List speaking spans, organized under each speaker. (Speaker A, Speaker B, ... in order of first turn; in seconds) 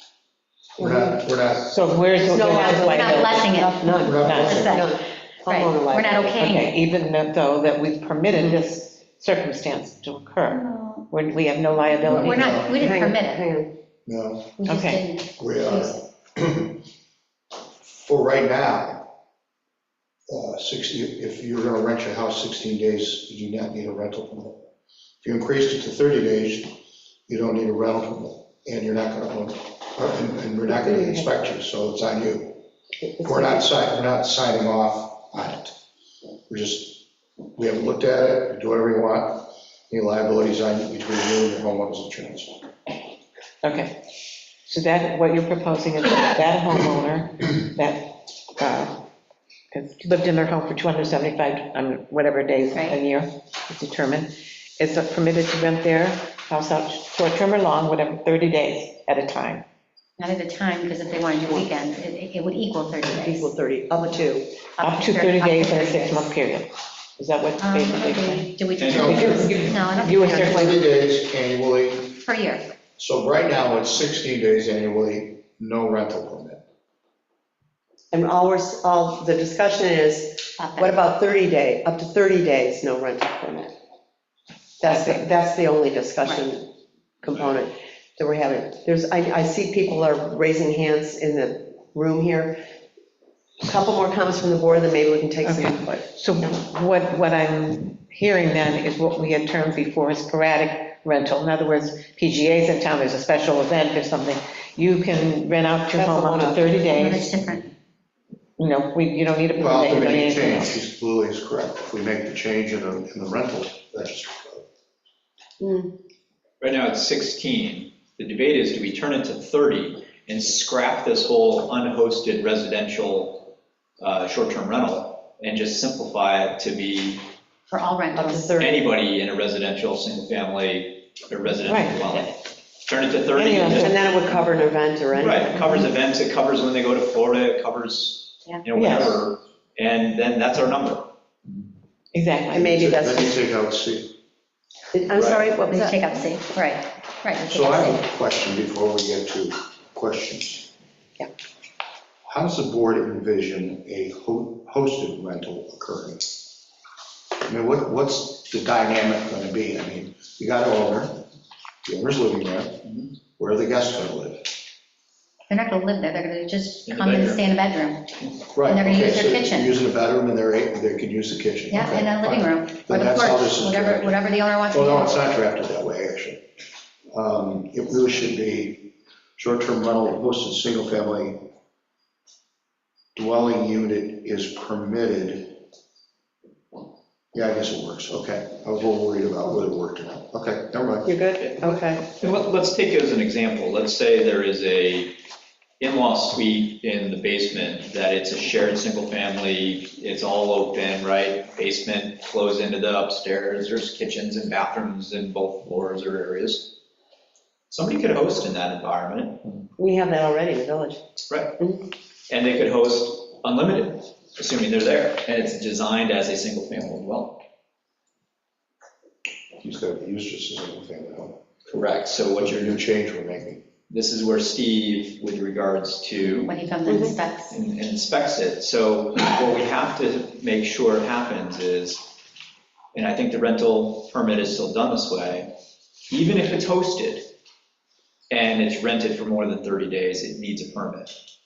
Speaker A: 0.8-1.2, 2.3-6.4, 12.8-13.7, 30.7-31.3, 33.0-33.6, 63.0-64.5, 78.1-83.7, 84.8-86.7, 87.2-92.6, 93.6-96.5, 105.9-106.7, 109.8-110.2, 115.6-115.9, 128.1-128.8, 133.7-135.9, 142.5-143.3, 144.9-146.1, 191.0-192.0, 209.8-211.0, 211.6-211.9, 226.8-227.2
Speaker B: 0.8-1.7, 4.0-4.8, 12.1-12.8, 14.1-14.6, 15.4-16.8, 17.8-19.1, 20.3-24.6, 25.2-32.6, 33.2-35.8, 36.5-42.6, 68.9-69.5, 70.2-72.2, 73.0-76.6, 109.6-114.7, 142.6-144.1, 147.5-150.7, 152.2-156.4, 157.5-161.2, 161.8-162.8, 163.4-164.5, 168.5-174.2, 174.7-176.4, 177.1-181.4, 183.1-185.6, 187.3-191.1, 219.6-221.4, 222.4-223.6
Speaker C: 1.6-3.6, 4.2-4.7, 6.3-12.6, 14.7-15.0, 43.6-44.0, 44.7-49.0, 49.7-59.6, 64.8-70.8, 84.9-85.1, 95.4-107.3, 108.6-110.8, 131.7-132.3, 133.3-134.2, 138.7-139.2, 142.1-142.7
Speaker D: 2.3-4.9, 5.5-6.7, 10.5-11.1, 12.1-13.4, 14.6-16.0, 60.2-63.5, 64.8-66.3, 67.6-70.7, 72.2-72.6, 80.6-81.0, 106.9-107.7, 127.7-128.5, 145.6-148.0, 165.5-168.1, 168.6-169.7, 171.7-175.2, 226.2-227.5
Speaker E: 68.8-69.7, 116.6-123.5, 124.0-127.2, 128.6-134.4, 135.1-141.1, 145.1-145.4, 162.8-163.1, 166.8-167.4, 191.4-195.1, 195.8-206.7, 207.7-209.6, 211.3-211.6, 212.3-217.4, 221.7-222.8, 223.9-226.5, 227.5-232.1, 232.9-235.5, 236.1-237.3, 238.3-241.1